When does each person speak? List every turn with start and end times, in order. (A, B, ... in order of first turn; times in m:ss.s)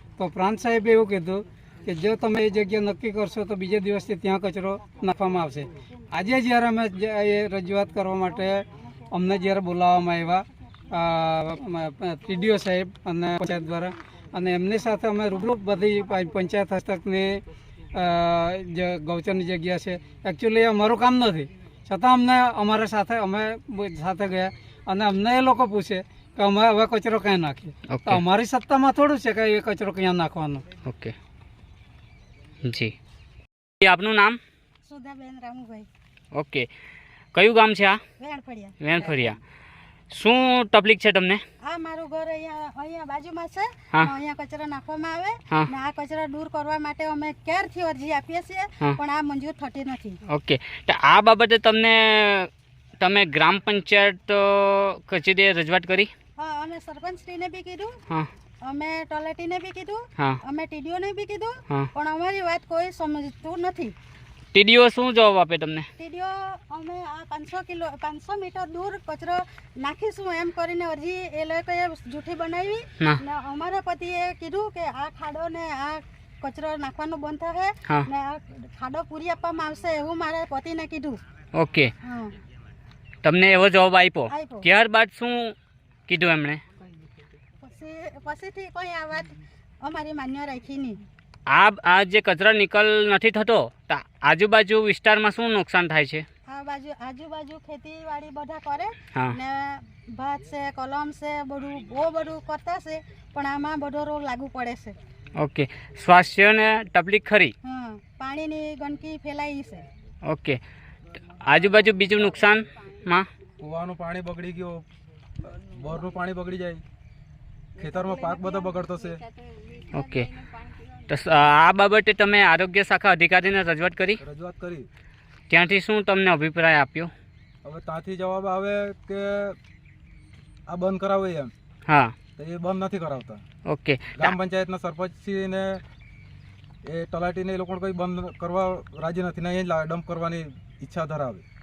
0:00.2-0:30.6 A
0:27.9-0:28.2 B
0:30.8-0:31.1 B
0:32.6-0:32.9 B
0:33.8-0:34.4 B
0:34.8-0:35.9 C
0:36.3-0:36.7 B
0:37.3-0:38.0 B
0:38.2-0:39.3 C
0:38.8-0:39.4 B
0:40.1-0:41.4 B
0:41.6-0:50.2 C
0:50.3-0:52.5 B
0:53.0-0:56.1 B
0:56.4-0:58.0 C
0:58.6-1:03.9 C
1:04.5-1:05.9 B
1:06.0-1:21.2 C
1:21.6-1:21.9 B
1:22.0-1:22.3 C
1:23.2-1:25.5 B
1:24.3-1:24.7 C
1:26.1-1:26.6 B
1:27.6-1:31.0 C
1:31.5-1:36.2 B
1:36.5-1:45.0 C
1:45.4-1:47.5 B
1:47.6-1:49.8 C
1:50.3-1:50.6 B
1:51.4-1:53.3 B
1:53.6-1:54.8 D
1:55.4-1:56.8 D
1:57.8-1:59.2 D
1:59.9-2:00.3 B
2:01.1-2:04.2 B
2:04.2-2:04.9 D
2:05.5-2:07.1 B
2:07.6-2:09.6 D
2:10.7-2:11.5 D
2:11.9-2:12.1 B
2:12.4-2:13.4 D
2:13.7-2:14.3 B
2:14.2-2:15.8 D
2:16.8-2:21.4 D